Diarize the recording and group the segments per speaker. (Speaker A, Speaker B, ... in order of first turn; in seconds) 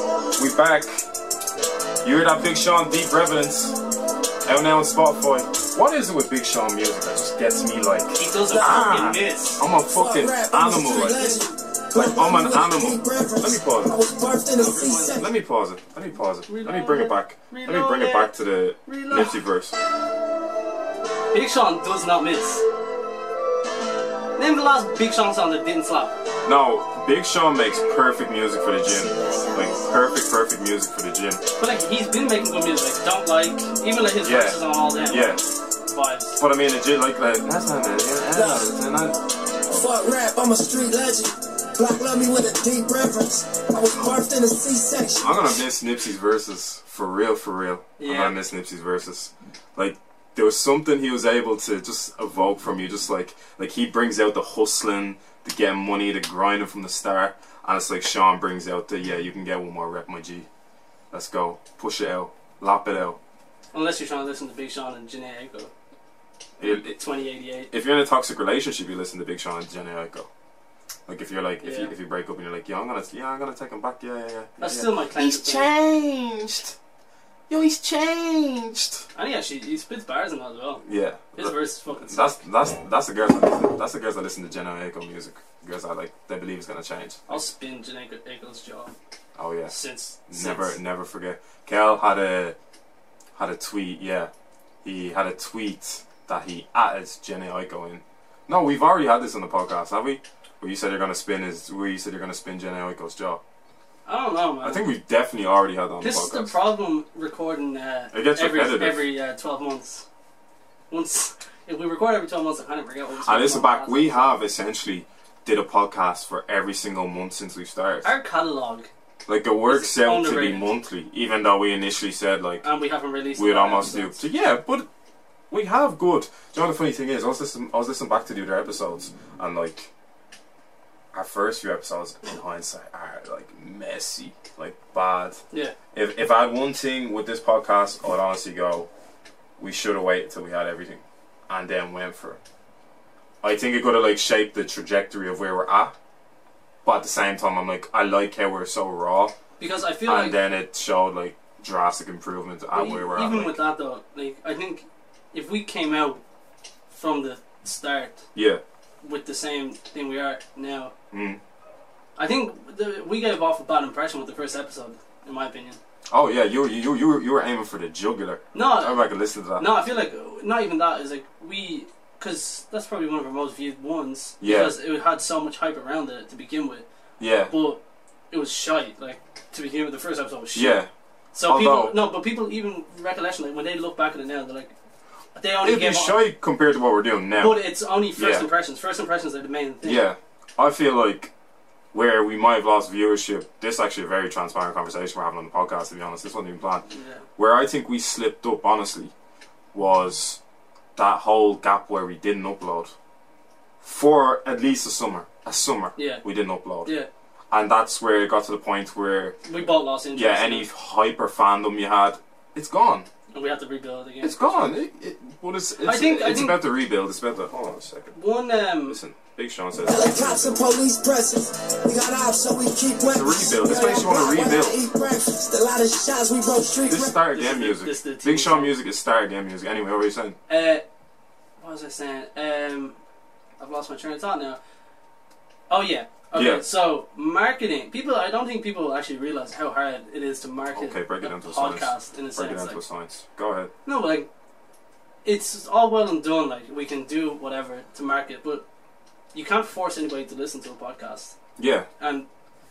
Speaker A: 0.3-1.1, 2.0-3.8, 4.5-14.0, 15.2-19.8, 26.4-31.4, 34.2-35.5, 36.4-39.2, 45.2-60.5, 61.1-63.2, 66.6-67.0, 67.7-70.3, 71.1-76.8, 77.5-79.0, 80.8-87.4, 89.3-89.7, 90.3-92.5, 93.3-94.3, 94.8-103.4, 104.6-106.5, 108.1-109.0, 113.2-118.1, 119.3-122.6, 123.4-124.9, 125.5-129.9, 131.1-135.4, 135.9-138.9, 139.6-142.4, 143.4-145.9, 146.8-149.3, 150.0-153.6, 158.3-158.6, 161.1-161.4, 166.1-169.7, 174.4-174.8, 177.2-177.5, 180.5-180.9, 181.4-182.0, 185.6-187.6, 188.2-188.5, 189.8-191.3, 191.9-196.8, 197.4-199.1, 199.7-200.4, 200.9-202.9, 203.8-206.9, 207.5-213.1, 214.2-218.2, 218.9-220.7, 223.1-224.8, 226.8-230.4, 236.3-236.7, 240.7-243.7, 251.6-251.9
Speaker B: 8.2-9.6, 14.6-15.2, 16.5-18.3, 18.9-19.4, 21.3-22.6, 24.4-26.1, 31.6-36.4, 48.0-48.4, 63.7-65.7, 66.6-67.7, 71.6-71.9, 74.6-75.7, 79.1-82.4, 87.3-88.9, 89.7-90.8, 104.0-104.8, 106.0-110.0, 110.9-114.3, 118.0-118.9, 119.7-120.7, 122.6-124.2, 149.6-150.4, 152.7-156.2, 156.9-158.2, 159.0-160.9, 162.2-165.8, 168.5-169.0, 169.6-176.8, 177.5-180.8, 181.3-184.7, 185.3-186.2, 187.3-190.0, 196.9-197.2, 206.0-206.2, 209.4-210.7, 213.3-214.8, 215.8-216.6, 218.1-219.0, 227.3-228.7, 230.5-230.8, 231.6-232.9, 233.6-234.6, 235.7-242.8, 243.8-244.3, 245.2-248.6, 249.3-251.3, 252.0-252.3
Speaker C: 8.5-9.1, 9.9-15.3, 38.3-38.7, 39.7-45.5, 219.8-227.2